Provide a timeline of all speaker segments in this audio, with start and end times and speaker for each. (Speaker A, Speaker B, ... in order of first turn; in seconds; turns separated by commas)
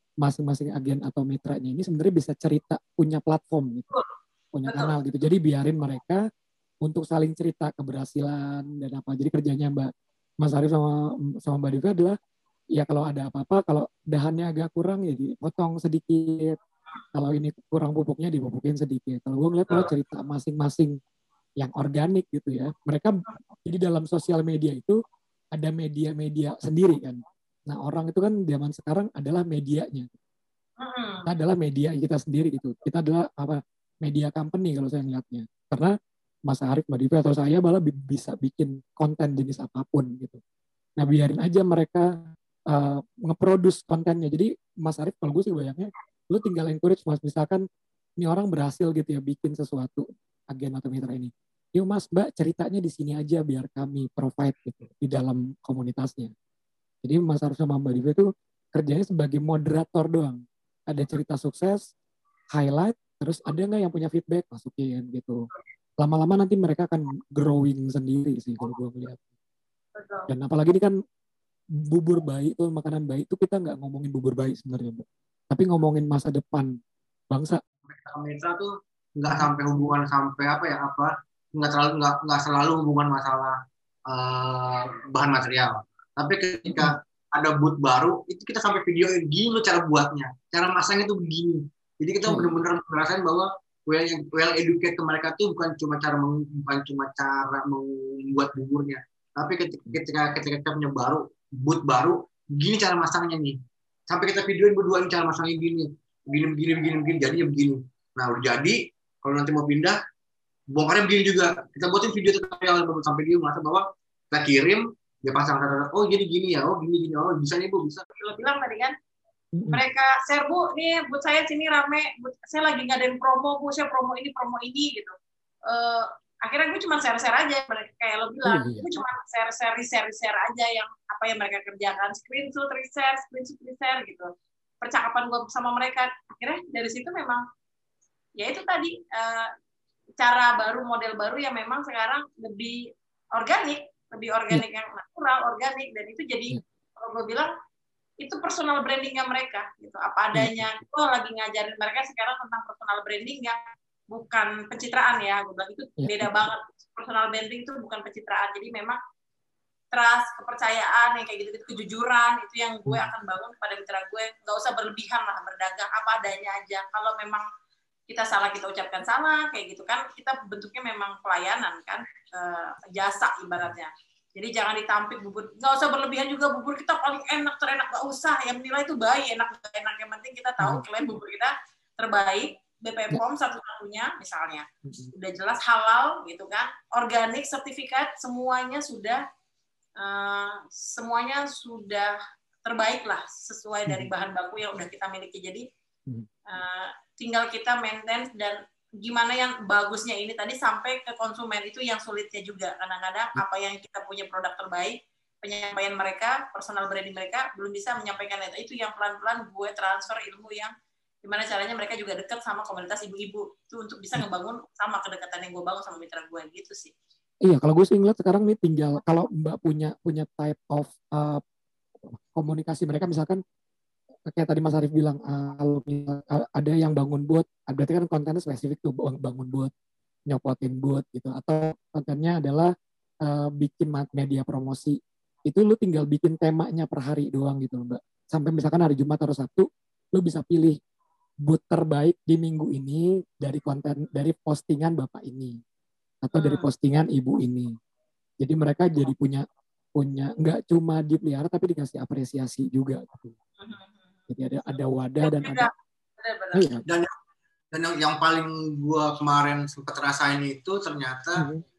Speaker A: 0.2-3.9, Speaker A: 4.5-6.2, Speaker B: 4.7-5.0, Speaker A: 6.8-9.9, Speaker A: 10.4-12.2, Speaker A: 12.7-16.6, Speaker A: 17.1-21.0, Speaker A: 21.6-25.0, Speaker A: 25.5-30.1, Speaker B: 30.8-31.3, Speaker A: 31.3-35.9, Speaker A: 36.5-40.4, Speaker A: 41.0-42.1, Speaker A: 42.7-47.6, Speaker A: 48.2-56.3, Speaker A: 57.0-61.8, Speaker A: 62.5-65.4, Speaker A: 66.0-69.2, Speaker B: 70.0-70.3, Speaker A: 70.3-70.9, Speaker A: 71.8-76.7, Speaker A: 77.3-77.6, Speaker C: 77.8-103.6, Speaker A: 86.7-86.9, Speaker A: 92.2-92.5, Speaker C: 104.1-110.0, Speaker C: 110.7-118.0, Speaker B: 118.1-118.9, Speaker A: 119.5-119.8, Speaker B: 119.7-125.1, Speaker B: 125.7-134.3, Speaker A: 128.4-129.0, Speaker B: 134.8-137.4, Speaker B: 138.4-139.5, Speaker B: 140.2-142.8, Speaker B: 143.3-147.5, Speaker B: 148.2-153.6, Speaker A: 150.3-150.7, Speaker B: 154.1-159.0, Speaker A: 156.0-156.5, Speaker B: 159.9-167.4, Speaker B: 168.1-189.2, Speaker A: 184.8-185.1, Speaker B: 190.0-195.6, Speaker B: 196.5-210.7, Speaker B: 211.2-216.9, Speaker A: 217.4-221.4, Speaker A: 222.0-223.4, Speaker A: 224.3-229.7, Speaker A: 230.3-232.7, Speaker A: 233.2-240.8, Speaker A: 241.4-245.6, Speaker A: 246.2-247.7, Speaker B: 246.3-246.7, Speaker A: 248.4-249.4, Speaker A: 249.9-253.3, Speaker B: 253.6-254.3, Speaker A: 254.3-255.7, Speaker B: 255.2-256.6, Speaker A: 256.5-256.8, Speaker C: 257.7-261.4, Speaker A: 261.4-261.6